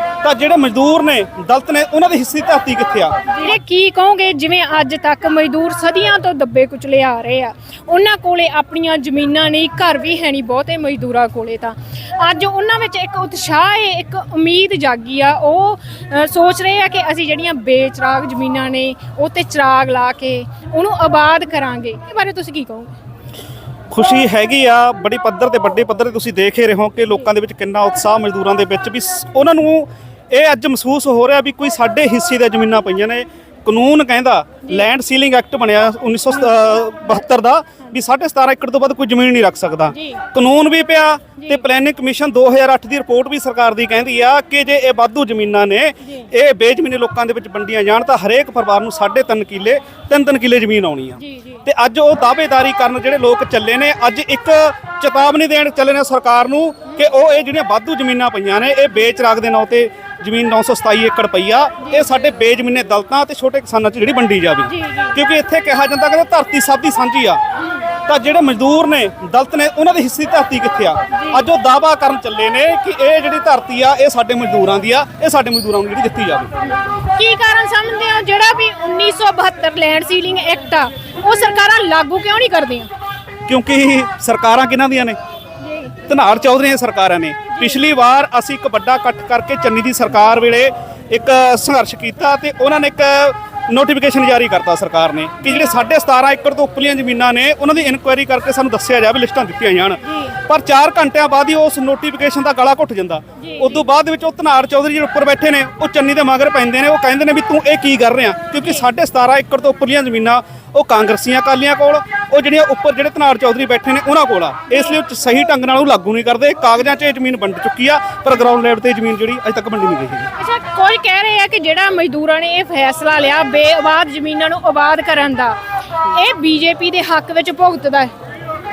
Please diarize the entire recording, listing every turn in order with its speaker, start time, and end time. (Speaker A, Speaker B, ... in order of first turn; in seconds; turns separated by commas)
Speaker A: 0.2-3.2, Speaker B: 3.3-22.9, Speaker A: 23.9-67.4, Speaker B: 40.0-40.2, Speaker B: 41.4-41.6, Speaker B: 51.2-51.6, Speaker B: 64.7-65.2, Speaker A: 68.1-76.6, Speaker B: 71.1-71.4, Speaker B: 76.7-82.9, Speaker A: 83.5-85.2, Speaker B: 85.6-86.0, Speaker A: 86.0-120.3, Speaker B: 87.5-87.8, Speaker B: 95.4-95.7, Speaker B: 100.0-100.3, Speaker B: 103.4-103.8, Speaker B: 120.4-128.1